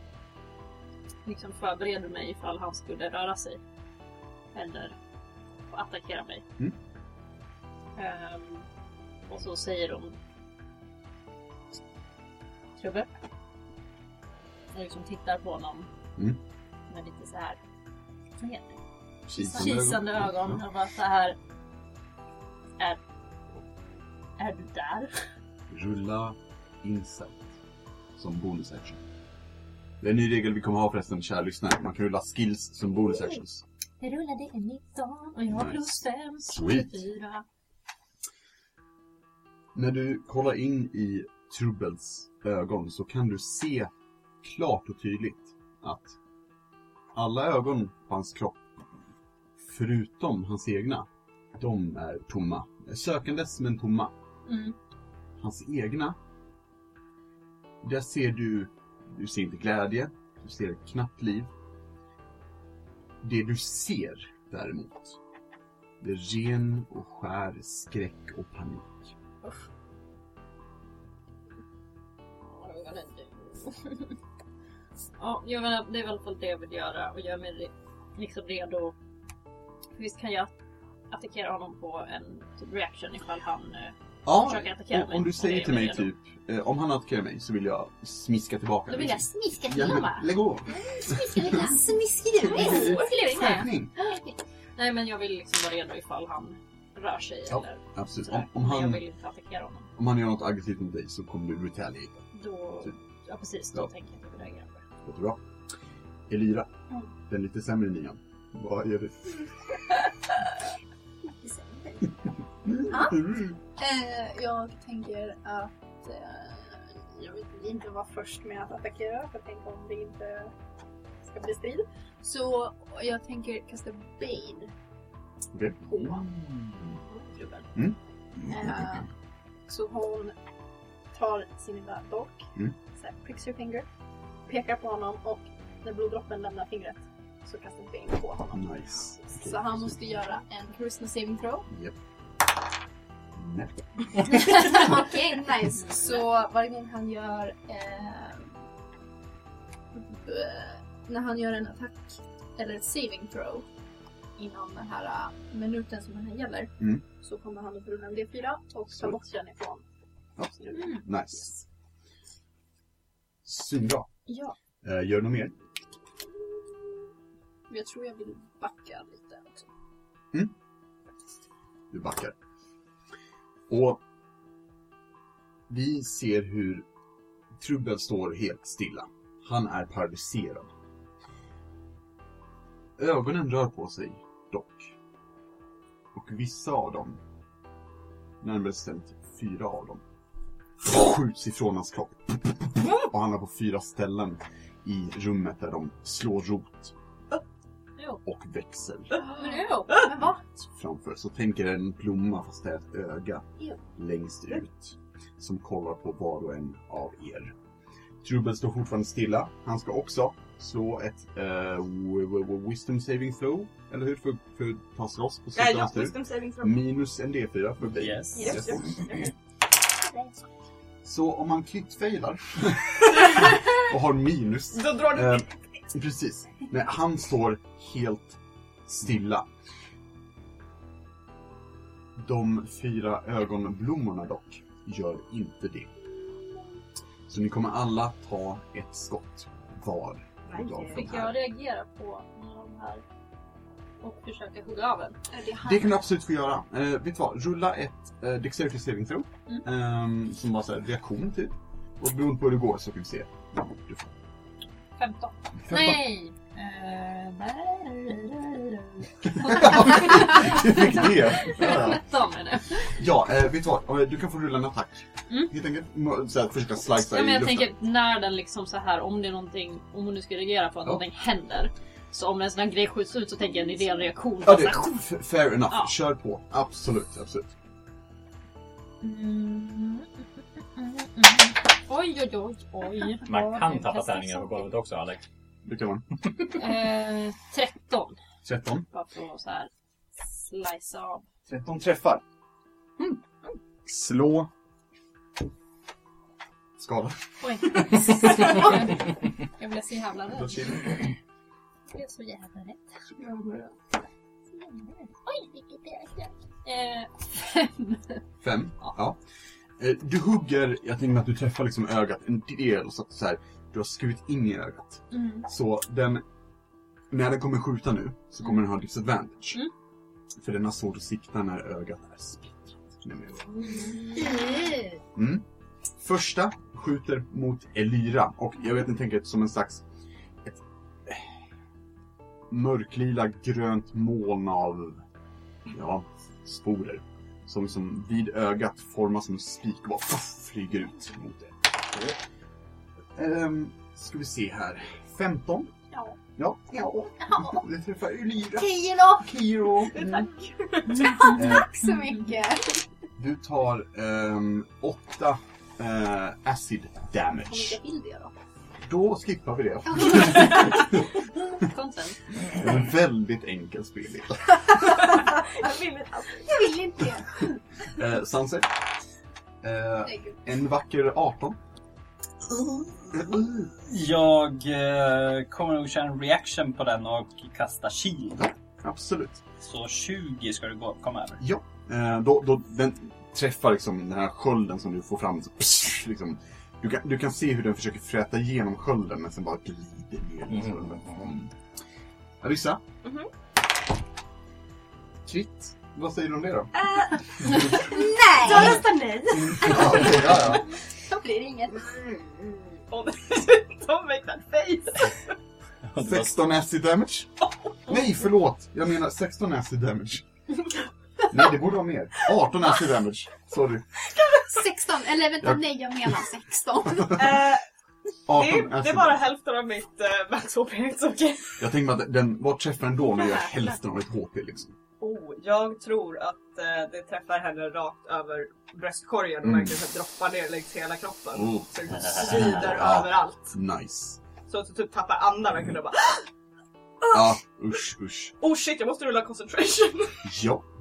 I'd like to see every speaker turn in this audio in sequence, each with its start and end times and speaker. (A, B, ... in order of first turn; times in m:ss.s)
0:01.2-0:03.6 A
0:04.5-0:05.0 A
0:05.7-0:06.4 A
0:08.0-0:08.7 A
0:09.3-0:10.2 A
0:12.8-0:13.1 A
0:14.7-0:15.9 A
0:16.9-0:17.6 A
0:18.4-0:18.7 A
0:19.3-0:20.6 B
0:19.3-0:21.4 A
0:24.4-0:25.1 A
0:25.7-0:27.5 B
0:28.2-0:29.0 B
0:30.0-0:33.6 B
0:34.0-0:37.4 A
0:35.5-0:36.0 B
0:36.5-0:37.0 B
0:39.7-0:43.9 B
0:44.4-0:46.2 B
0:47.1-0:48.6 B
0:49.6-0:54.1 B
0:54.4-0:54.8 A
0:55.4-0:56.2 B
0:57.8-1:01.5 B
1:03.2-1:05.2 B
1:06.0-1:09.1 B
1:12.4-1:14.1 A
1:15.2-1:18.9 A
1:20.0-1:20.5 A
1:21.1-1:26.1 A
1:24.2-1:31.6 B
1:28.9-1:39.9 A
1:29.6-1:30.1 C
1:31.0-1:33.2 C
1:32.4-1:33.9 B
1:37.5-1:39.0 B
1:40.0-1:42.2 B
1:42.3-1:44.8 A
1:45.0-1:45.4 B
1:46.3-1:46.7 B
1:47.3-1:49.4 B
1:51.4-2:00.5 C
1:52.6-1:53.6 B
2:01.2-2:04.7 C
2:05.5-2:06.8 B
2:05.8-2:06.3 C
2:07.4-2:07.6 C
2:07.7-2:08.9 B
2:08.4-2:09.1 C
2:09.7-2:10.3 C
2:11.1-2:13.8 C
2:14.5-2:21.7 C
2:18.5-2:20.0 B
2:21.7-2:22.0 B
2:23.3-2:24.8 B
2:24.2-2:28.6 C
2:25.9-2:26.1 A
2:29.9-2:33.7 C
2:34.4-2:39.8 C
2:38.9-2:39.2 B
2:40.4-2:41.6 B
2:43.4-2:44.1 B
2:44.3-2:44.5 C
2:44.8-2:45.5 B
2:47.7-2:49.7 C
2:51.9-2:52.3 B
2:53.7-2:54.0 B
2:55.7-2:56.8 B
2:57.6-3:00.7 B
3:03.0-3:04.9 B
3:06.1-3:07.2 B
3:08.4-3:10.0 B
3:10.8-3:16.9 B
3:18.2-3:19.2 B
3:19.2-3:20.4 C
3:19.4-3:20.0 A
3:20.4-3:27.5 B
3:28.2-3:38.8 B
3:35.5-3:36.8 D
3:37.9-3:38.6 E
3:38.4-3:39.2 D
3:41.0-3:49.5 B
3:44.7-3:45.5 D
3:52.2-3:55.9 B
3:57.3-4:01.4 B
4:00.5-4:01.1 D
4:00.9-4:03.0 A
4:04.0-4:05.2 A
4:05.3-4:06.0 C
4:05.6-4:14.1 B
4:15.0-4:23.0 A
4:15.6-4:16.0 B
4:19.3-4:22.0 B
4:22.8-4:27.7 B
4:26.9-4:34.9 A
4:34.4-4:37.5 B
4:39.0-4:40.1 A
4:40.7-4:44.7 A
4:43.2-4:45.2 E
4:45.6-4:46.1 B
4:46.5-4:48.2 A
4:48.4-4:48.9 B
4:48.9-4:49.7 A
4:50.2-4:51.2 A
4:51.5-4:52.2 B
4:53.8-4:54.5 B
4:56.8-4:57.2 B
4:57.4-5:00.8 A
5:00.3-5:01.0 B
5:01.9-5:02.8 A
5:04.5-5:08.2 A
5:08.4-5:09.2 B
5:09.8-5:16.2 B
5:15.1-5:15.4 A
5:17.1-5:19.6 B
5:20.4-5:23.8 B
5:25.1-5:25.4 B
5:26.0-5:29.8 B
5:30.4-5:31.4 B
5:32.5-5:35.0 B
5:35.7-5:42.1 B
5:43.2-5:45.7 B
5:45.9-5:46.2 C
5:46.4-5:50.3 B
5:48.6-5:49.3 C
5:49.9-5:51.3 D
5:51.0-5:52.8 C
5:51.3-5:51.7 B
5:53.2-5:57.8 B
5:57.5-5:58.4 C
5:58.8-6:01.0 B
6:01.6-6:02.2 A
6:02.4-6:05.1 B
6:05.0-6:06.7 D
6:06.4-6:07.6 C
6:07.9-6:08.7 B
6:09.6-6:11.6 B
6:10.0-6:10.4 C
6:12.5-6:13.2 E
6:13.1-6:13.7 B
6:13.8-6:18.5 E
6:18.4-6:19.4 B
6:19.6-6:21.4 E
6:21.4-6:31.5 B
6:30.6-6:31.2 E
6:32.4-6:32.8 B
6:33.0-6:33.3 D
6:35.2-6:36.7 B
6:36.8-6:39.9 D
6:37.4-6:41.9 C
6:37.4-6:37.8 B
6:39.4-6:40.6 B
6:42.9-6:45.3 D
6:45.9-6:46.3 E
6:46.0-6:47.3 B
6:47.8-6:50.2 B
6:51.3-6:53.8 B
6:54.4-6:57.3 C
6:57.1-6:57.6 D
6:58.3-6:59.2 B
6:58.3-7:01.6 D
7:01.6-7:04.7 B
7:05.0-7:13.5 D
7:09.4-7:09.8 B
7:11.3-7:14.2 B
7:14.4-7:16.3 D
7:17.0-7:17.3 D
7:17.1-7:18.3 B
7:18.4-7:20.3 D
7:20.2-7:20.6 B